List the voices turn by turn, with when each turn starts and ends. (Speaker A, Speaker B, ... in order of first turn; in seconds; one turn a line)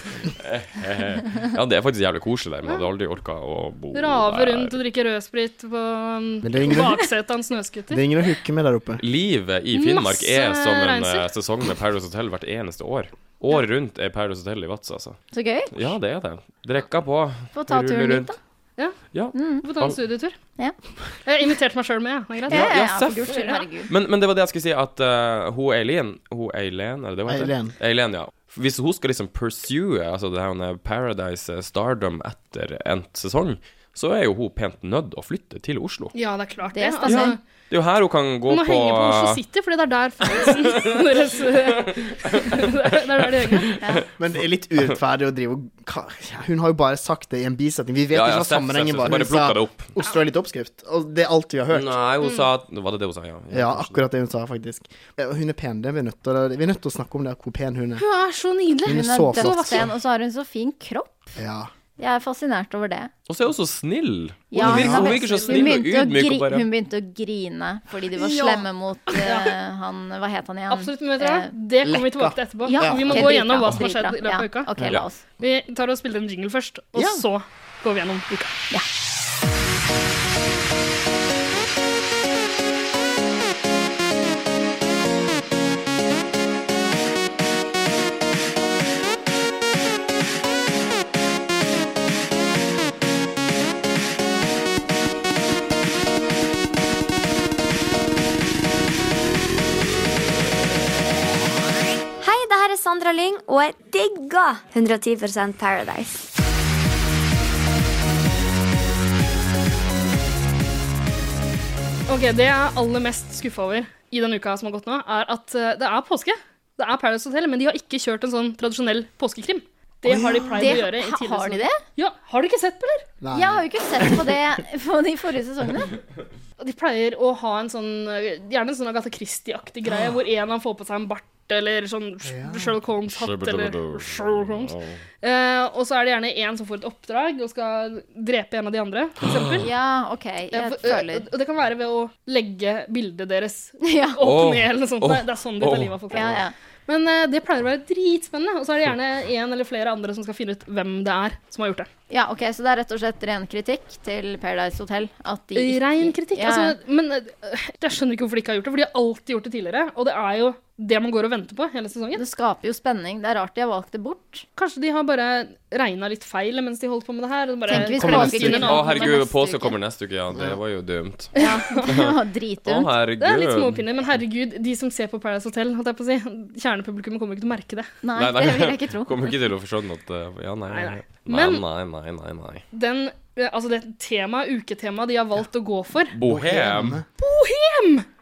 Speaker A: 0.2-4.8
Speaker B: 3.9-8.1
Speaker C: 6.4-7.1
Speaker C: 7.9-9.0
Speaker A: 9.0-15.2
Speaker B: 9.7-11.3
Speaker D: 15.3-15.7
Speaker A: 15.7-18.3
Speaker D: 17.5-18.4
Speaker A: 19.1-20.0
Speaker D: 19.3-19.6
Speaker B: 19.6-20.4
Speaker B: 21.3-22.7
Speaker D: 22.5-23.9
Speaker A: 22.5-36.1
Speaker C: 27.3-27.7
Speaker B: 36.1-37.4
Speaker D: 36.7-37.4
Speaker A: 37.0-39.4
Speaker B: 38.5-43.8
Speaker A: 40.4-42.7
Speaker A: 43.4-44.1
Speaker C: 44.2-52.0
Speaker A: 48.1-49.9
Speaker A: 51.7-54.1
Speaker B: 52.2-52.5
Speaker C: 53.5-58.0
Speaker B: 58.0-59.8
Speaker C: 58.9-59.9
Speaker D: 58.9-61.3
Speaker C: 61.4-61.7
Speaker D: 62.0-63.1
Speaker A: 63.3-66.7
Speaker D: 64.5-71.5
Speaker C: 64.6-65.2
Speaker B: 64.9-65.7
Speaker B: 68.2-68.6
Speaker B: 69.2-69.5
Speaker B: 70.7-74.7
Speaker C: 71.8-73.3
Speaker D: 72.7-75.2
Speaker B: 75.4-78.6
Speaker C: 77.0-77.2
Speaker E: 102.2-106.3
Speaker B: 112.1-123.1
Speaker C: 120.1-120.8
Speaker D: 120.6-121.8
Speaker C: 123.2-124.3
Speaker D: 123.3-125.9
Speaker B: 126.6-139.7
Speaker C: 132.2-132.8
Speaker A: 133.1-135.0
Speaker D: 139.6-141.3
Speaker B: 140.5-151.9
Speaker D: 143.8-144.2
Speaker A: 144.2-146.4
Speaker D: 146.1-146.5
Speaker D: 152.1-156.8
Speaker B: 155.6-162.2
Speaker D: 162.2-164.4
Speaker B: 164.6-169.2
Speaker D: 167.7-169.8
Speaker C: 167.8-168.7
Speaker A: 168.1-173.8
Speaker C: 170.3-170.6
Speaker B: 171.3-172.0
Speaker D: 171.4-172.9
Speaker B: 173.2-177.9
Speaker D: 178.0-179.2
Speaker A: 178.2-182.6
Speaker B: 180.7-181.6
Speaker B: 182.7-186.2
Speaker A: 186.1-187.0
Speaker C: 186.2-187.1
Speaker B: 187.2-188.1